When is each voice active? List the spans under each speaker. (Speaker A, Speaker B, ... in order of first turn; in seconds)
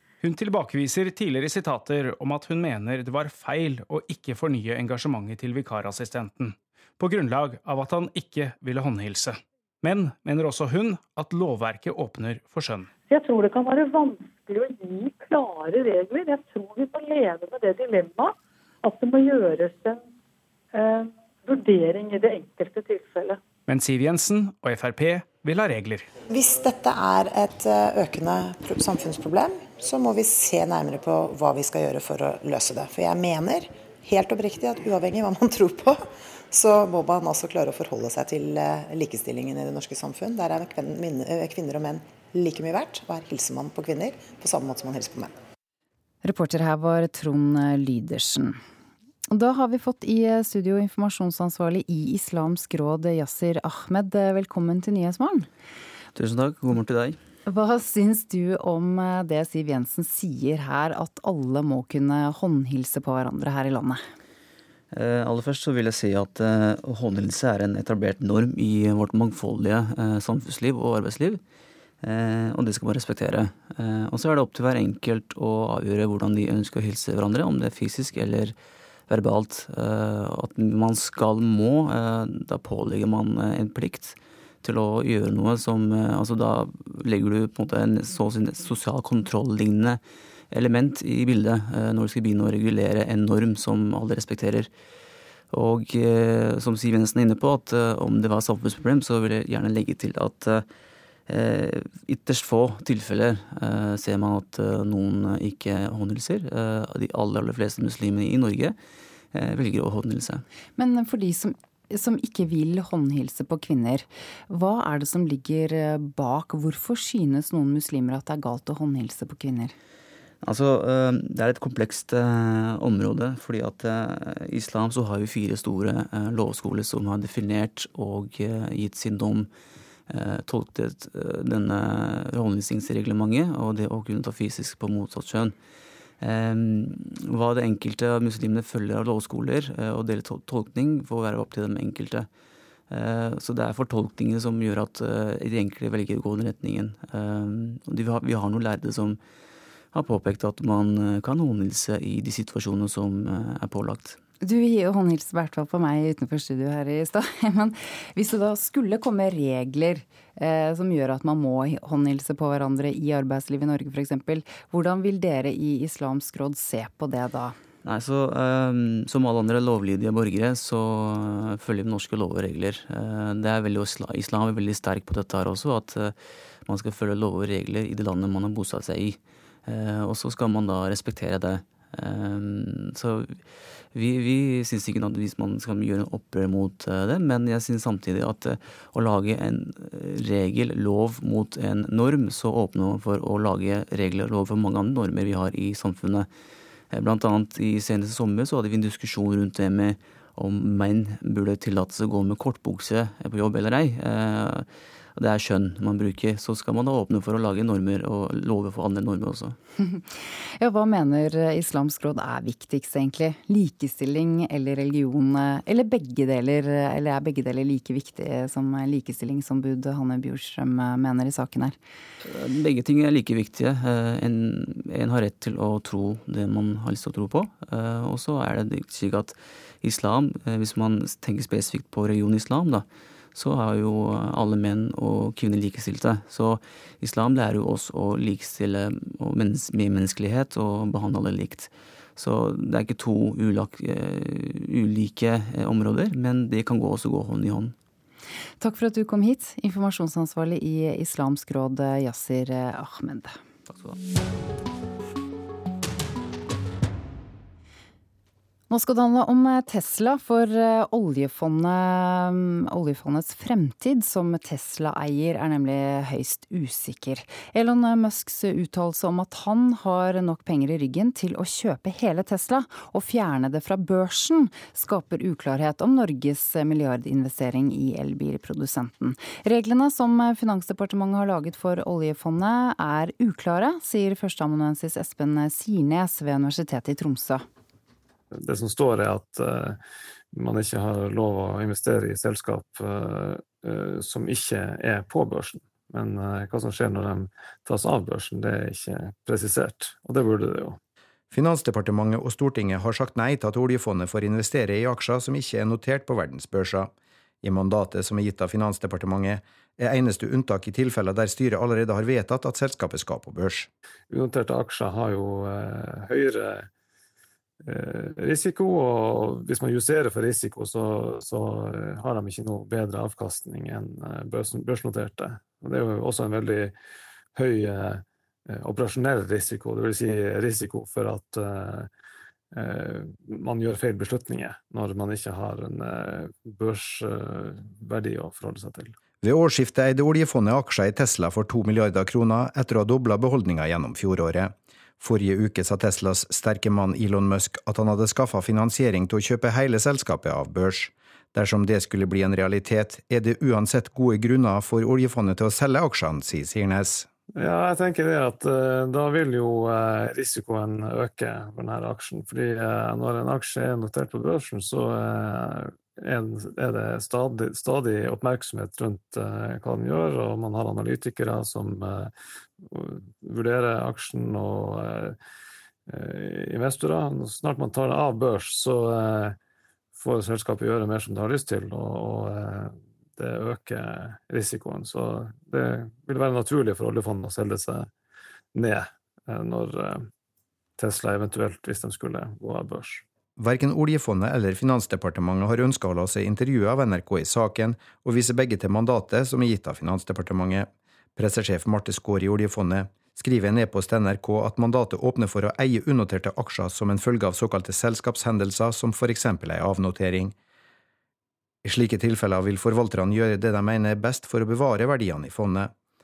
Speaker A: 0.2-12.9, 23.7-26.1
Speaker B: 13.1-20.0, 20.7-23.4
Speaker C: 26.3-45.3
Speaker D: 46.2-48.6, 49.3-55.5, 57.5-64.0, 110.8-119.7, 154.4-167.6, 209.8-221.8, 248.6-253.4, 258.7-287.4
Speaker E: 56.1-57.2, 64.9-71.4, 72.0-78.5, 79.1-90.0, 90.5-94.7, 95.5-100.7, 101.3-108.8, 109.3-110.4, 120.4-129.5, 130.1-135.5, 136.2-142.3, 142.9-149.2, 149.9-154.2, 167.8-196.3, 196.9-209.6, 222.2-247.7
Speaker F: 288.3-289.8, 290.3-300.8, 314.1-316.7, 317.6-326.7, 327.3-331.9, 332.5-338.9, 357.4-375.1, 375.9-379.4, 379.9-387.9, 388.5-390.1, 390.8-393.0
Speaker G: 301.3-313.7, 339.2-357.1, 393.4-410.3, 411.6-415.7